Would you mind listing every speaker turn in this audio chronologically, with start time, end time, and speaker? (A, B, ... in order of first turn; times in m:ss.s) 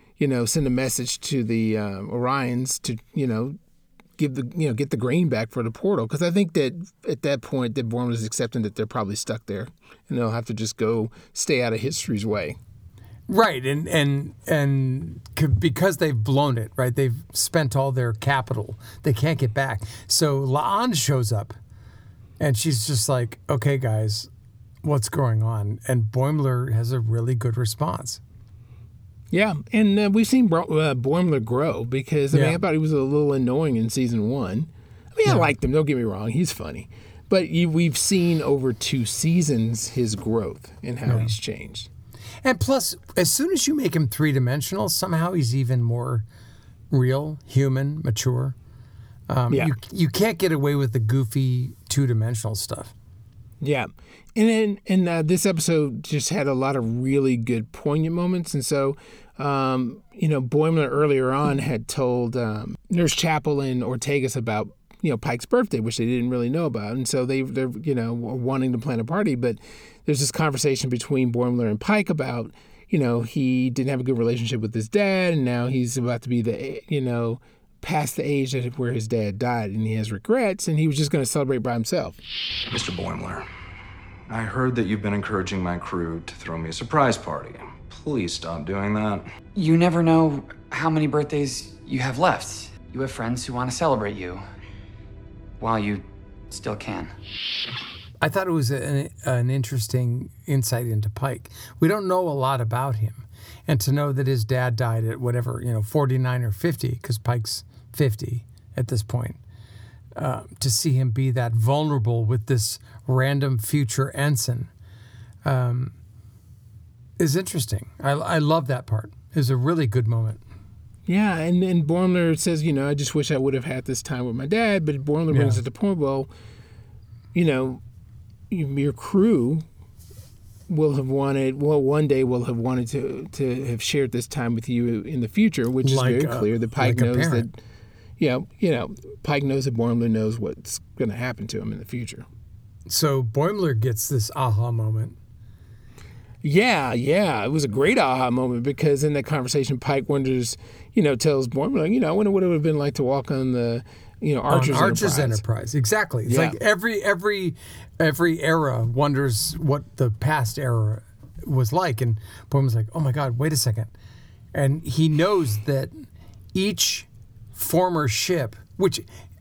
0:00.2-0:03.6 A
0:04.2-0:12.6 A
0:13.3-0:21.6 B
0:22.4-0:24.3 B
0:24.8-0:28.2 B
0:29.3-0:41.9 A
0:32.3-0:32.6 B
0:35.3-0:35.5 B
0:41.1-0:41.3 B
0:42.4-0:46.3 B
0:46.9-0:48.6 B
0:49.3-0:52.9 B
0:53.6-1:22.2 A
1:22.7-1:23.5 C
1:24.3-1:29.3 C
1:29.6-1:34.4 D
1:35.6-1:37.1 D
1:38.2-1:49.4 B
1:50.2-1:54.7 B
1:55.4-1:55.9 B
1:57.2-2:00.4 B
2:01.1-2:06.3 A
2:05.3-2:05.6 B
2:07.3-2:07.8 A
2:08.5-2:09.6 A
2:10.7-2:17.6 A
2:15.8-2:17.5 B
2:18.2-2:22.2 A
2:22.9-2:25.2 B
2:26.4-2:35.4 A
2:34.5-2:43.9 B
2:36.3-2:36.6 A
2:44.5-2:49.0 B